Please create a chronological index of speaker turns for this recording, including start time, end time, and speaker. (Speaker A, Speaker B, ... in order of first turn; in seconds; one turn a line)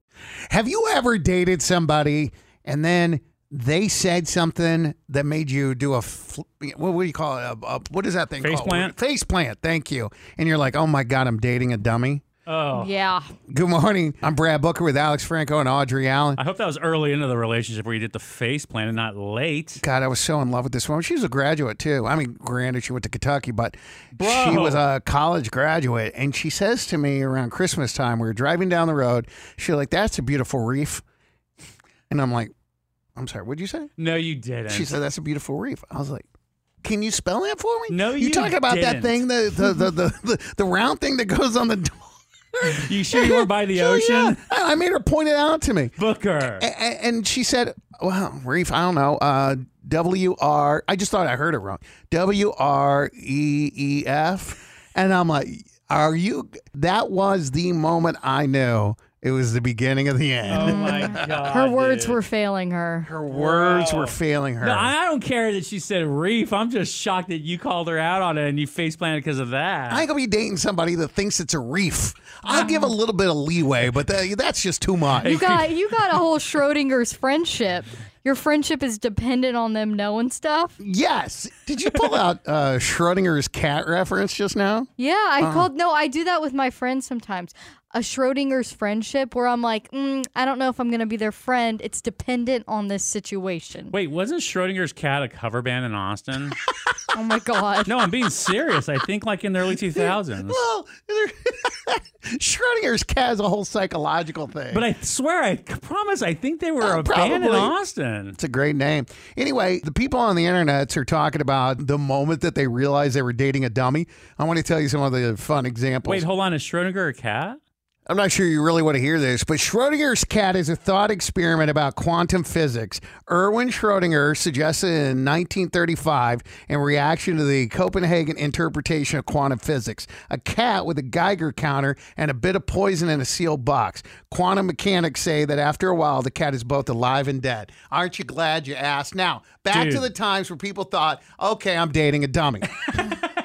Speaker A: 0.5-12.2
Speaker B: 8.4-8.9
Speaker B: 12.5-12.9
Speaker C: 12.7-13.3
Speaker A: 13.5-16.4
Speaker B: 16.4-19.8
Speaker A: 19.8-31.0
Speaker B: 24.1-24.8
Speaker A: 32.1-32.5
Speaker A: 33.1-33.9
Speaker B: 34.0-34.9
Speaker A: 34.7-36.2
Speaker A: 36.8-45.9
Speaker B: 37.9-39.2
Speaker B: 42.6-44.4
Speaker B: 46.0-46.6
Speaker A: 46.6-61.4
Speaker B: 60.5-62.2
Speaker C: 60.5-63.1
Speaker A: 63.0-64.9
Speaker B: 63.3-70.0
Speaker A: 69.9-75.4
Speaker B: 75.2-75.7
Speaker C: 75.2-80.8
Speaker A: 80.8-84.9
Speaker C: 85.0-93.9
Speaker A: 85.4-85.7
Speaker B: 93.9-96.6
Speaker C: 97.1-97.9
Speaker B: 97.8-100.6
Speaker A: 100.0-104.9
Speaker B: 104.7-108.3
Speaker A: 106.8-107.7
Speaker A: 108.4-116.2
Speaker B: 116.0-117.6
Speaker A: 118.1-142.9
Speaker B: 139.7-140.1